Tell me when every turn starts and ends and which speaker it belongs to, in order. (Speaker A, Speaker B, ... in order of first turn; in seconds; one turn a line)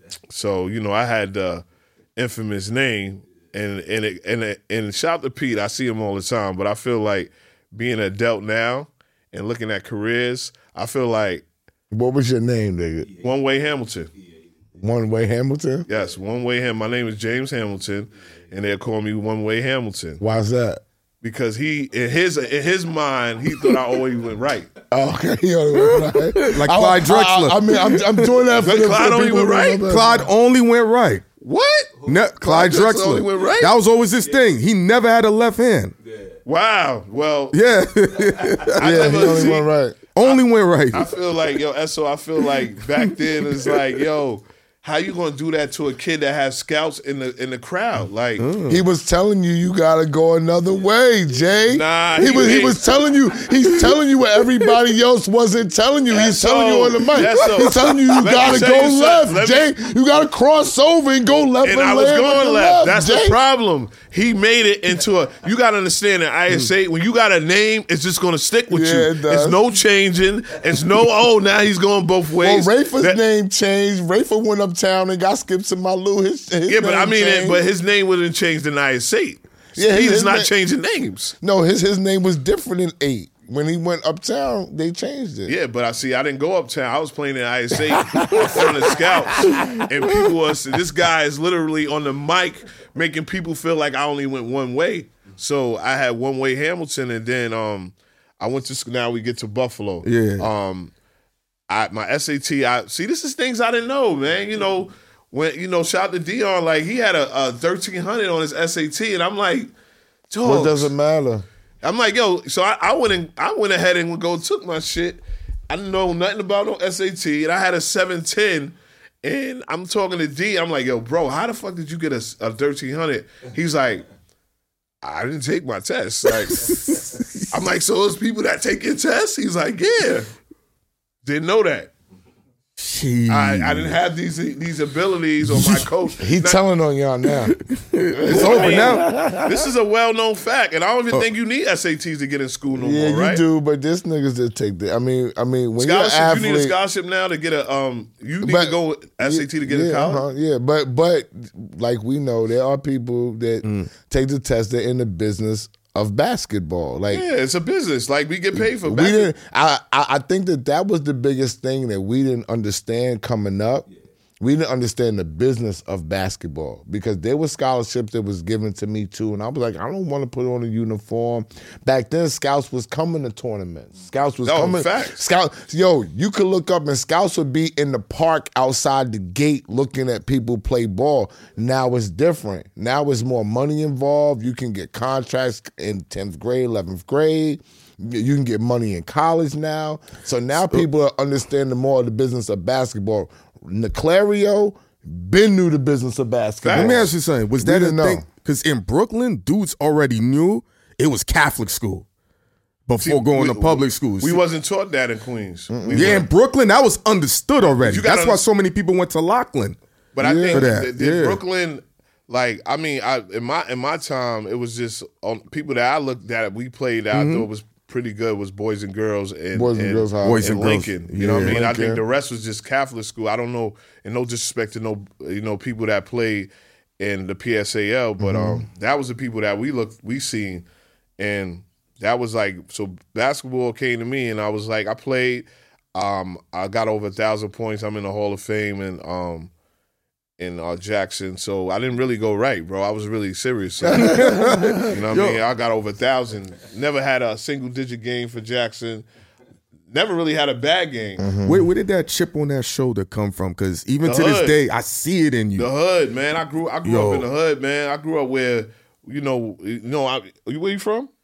Speaker A: 0.3-1.6
Speaker A: 2.1-11.4
Speaker B: 11.9-13.1
Speaker A: 13.2-14.1
Speaker B: 14.8-15.9
Speaker A: 15.9-20.2
Speaker B: 20.2-20.8
Speaker A: 21.2-24.7
Speaker B: 24.9-30.2
Speaker C: 25.8-28.4
Speaker A: 28.6-29.9
Speaker C: 29.9-31.2
Speaker A: 31.4-33.8
Speaker C: 32.0-35.9
Speaker A: 36.4-37.6
Speaker C: 37.5-39.3
Speaker A: 38.8-39.6
Speaker B: 38.8-40.0
Speaker C: 40.1-41.1
Speaker A: 40.9-48.4
Speaker C: 48.4-48.8
Speaker B: 48.7-63.4
Speaker A: 51.7-52.8
Speaker A: 56.1-59.7
Speaker C: 57.7-58.1
Speaker A: 61.6-73.2
Speaker B: 68.7-69.6
Speaker B: 72.4-77.6
Speaker A: 76.7-81.3
Speaker B: 79.8-80.5
Speaker B: 81.4-85.5
Speaker A: 85.5-100.9
Speaker B: 88.0-88.7
Speaker B: 89.4-89.8
Speaker C: 100.0-100.5
Speaker A: 101.7-109.7
Speaker A: 110.3-110.9
Speaker B: 110.4-111.5
Speaker A: 111.8-124.0
Speaker A: 125.0-130.3
Speaker C: 126.2-127.5
Speaker A: 131.2-131.9
Speaker C: 132.8-133.9
Speaker A: 133.3-136.6
Speaker C: 135.5-135.8
Speaker B: 136.2-137.6
Speaker C: 137.6-139.2
Speaker A: 138.2-143.4
Speaker B: 138.3-139.5
Speaker B: 142.7-146.7
Speaker A: 145.8-150.2
Speaker B: 148.4-157.2
Speaker C: 153.6-153.9
Speaker A: 157.1-159.3
Speaker B: 158.6-163.9
Speaker B: 164.4-198.2
Speaker A: 174.4-175.2
Speaker A: 196.6-197.1
Speaker C: 196.7-202.1
Speaker C: 202.9-204.4
Speaker A: 203.0-206.3
Speaker B: 205.7-206.2
Speaker C: 205.9-209.8
Speaker A: 207.7-208.4
Speaker A: 210.1-230.7
Speaker B: 210.2-210.7
Speaker C: 210.5-211.4
Speaker C: 217.1-217.5
Speaker B: 219.5-220.5
Speaker C: 220.2-221.6
Speaker B: 221.2-222.0
Speaker B: 228.2-228.6
Speaker A: 231.2-239.5
Speaker A: 240.4-244.3
Speaker B: 243.8-244.9
Speaker C: 244.0-245.4
Speaker A: 244.8-249.1
Speaker A: 249.9-251.2
Speaker B: 251.2-251.7
Speaker C: 251.4-255.7
Speaker A: 254.0-254.6
Speaker A: 255.6-261.1
Speaker C: 256.8-257.3